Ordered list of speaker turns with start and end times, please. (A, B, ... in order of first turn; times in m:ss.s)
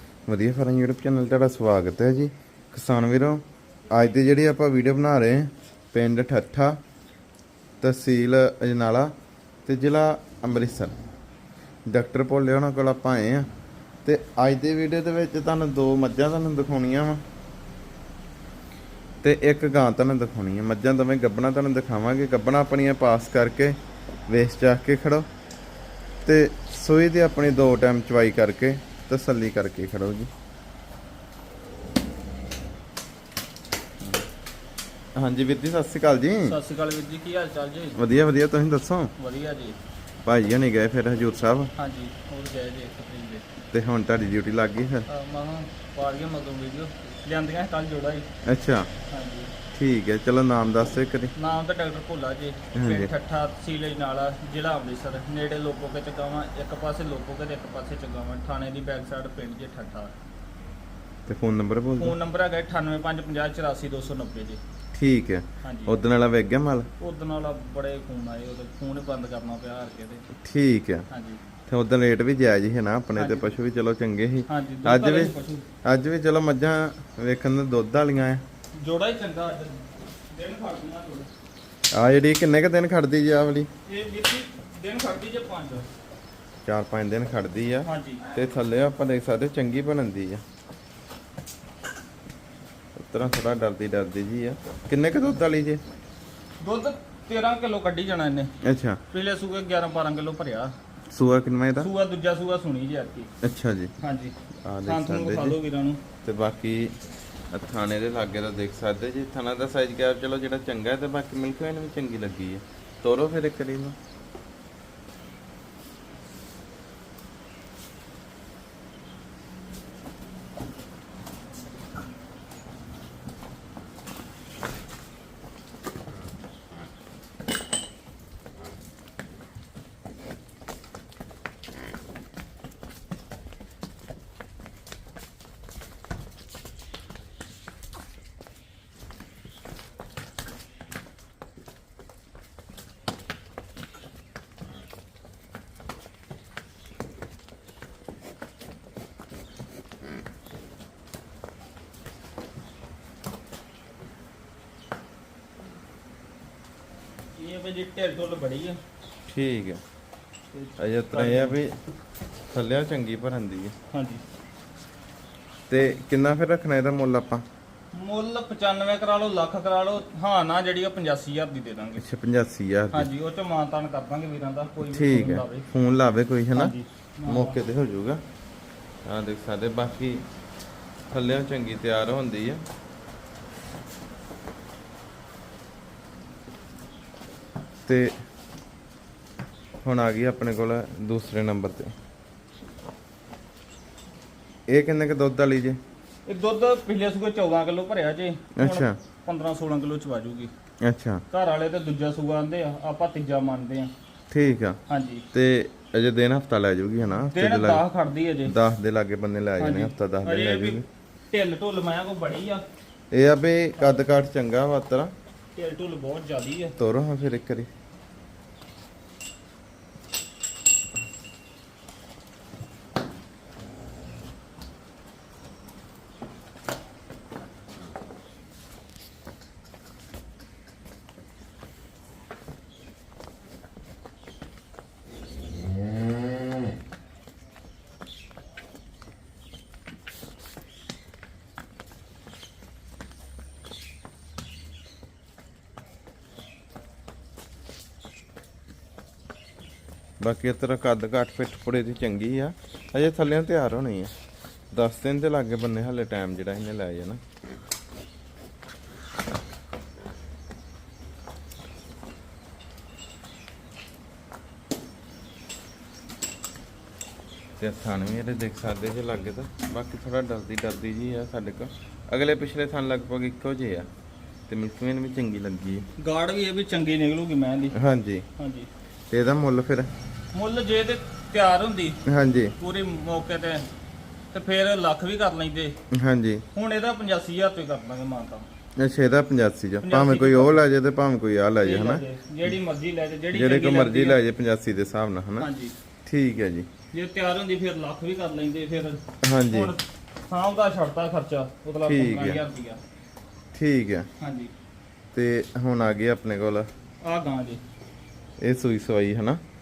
0:00.3-0:06.8 A
0:07.8-0:09.1 A
0:09.6-0:10.9 A
0:11.9-0:13.5 A
0:14.0-0:17.2 A
0:19.2-0:23.8 A
0:24.3-0:25.3 A
0:26.2-0:30.3 A
0:35.2-0:36.6 A
0:36.4-0:38.0 B
0:38.0-0:39.1 A
0:39.2-0:39.8 B
0:40.2-0:41.7 A
0:41.8-0:43.4 B
0:43.7-0:45.1 A
0:45.1-0:48.2 B
0:48.4-0:48.9 A
0:49.1-0:49.5 B
0:49.7-0:51.3 A
0:51.4-1:00.1 B
0:52.7-0:53.1 A
1:01.3-1:02.1 A
1:02.0-1:04.6 B
1:04.9-1:06.9 A
1:05.6-1:06.0 B
1:07.0-1:10.2 B
1:10.4-1:11.0 A
1:11.1-1:11.4 B
1:11.7-1:15.3 A
1:13.2-1:13.5 B
1:14.5-1:15.6 B
1:15.8-1:18.4 A
1:18.8-1:21.3 B
1:21.9-1:23.7 A
1:23.9-1:25.9 B
1:26.6-1:30.4 A
1:27.8-1:28.3 B
1:33.0-1:35.8 A
1:36.6-1:38.5 B
1:38.6-1:39.0 A
1:39.1-1:40.7 B
1:41.1-1:41.9 A
1:41.8-1:43.3 B
1:43.4-1:43.9 A
1:44.0-1:44.3 B
1:44.6-1:45.6 A
1:44.8-1:46.0 B
1:46.2-1:47.0 A
1:47.5-1:54.0 A
2:37.4-2:38.8 B
2:39.3-2:39.8 A
2:40.5-2:41.6 B
2:40.8-2:41.8 A
2:42.5-2:43.7 A
2:43.9-2:44.2 B
2:45.7-2:47.4 A
2:47.9-2:52.0 B
2:52.0-2:53.1 A
2:52.9-2:55.7 B
2:54.8-2:58.2 A
2:56.6-2:57.6 B
2:59.0-3:00.2 A
3:01.1-3:02.6 A
3:07.8-3:08.2 A
3:09.8-3:11.9 A
3:14.7-3:15.8 A
3:16.2-3:20.5 B
3:18.6-3:19.0 A
3:20.8-3:21.2 A
3:21.3-3:23.9 B
3:24.3-3:24.8 A
3:24.9-3:25.2 B
3:25.3-3:27.8 A
3:27.3-3:28.5 B
3:28.4-3:30.8 A
3:29.6-3:32.6 B
3:33.1-3:35.1 A
3:35.6-3:36.7 B
3:36.8-3:37.7 A
4:10.2-4:14.1 A
4:14.7-4:17.2 A
4:27.6-4:33.9 A
4:34.5-4:35.9 A
4:36.0-4:37.7 B
4:37.7-4:38.2 A
4:38.4-4:38.7 B
4:39.1-4:39.9 A
4:40.3-4:42.0 B
4:42.0-4:42.5 A
4:42.6-4:43.7 B
4:44.3-4:45.8 B
4:45.9-4:46.4 A
4:46.5-4:48.5 B
4:48.8-4:52.6 A
4:49.8-4:50.6 B
4:51.6-4:54.2 B
4:53.3-4:55.5 A
4:55.4-4:55.7 B
4:56.0-4:56.7 A
4:56.9-5:02.8 B
4:59.2-4:59.7 A
5:01.8-5:02.4 A
5:03.5-5:04.1 A
5:04.2-5:04.5 B
5:05.1-5:06.7 A
5:07.0-5:07.6 B
5:08.4-5:09.4 A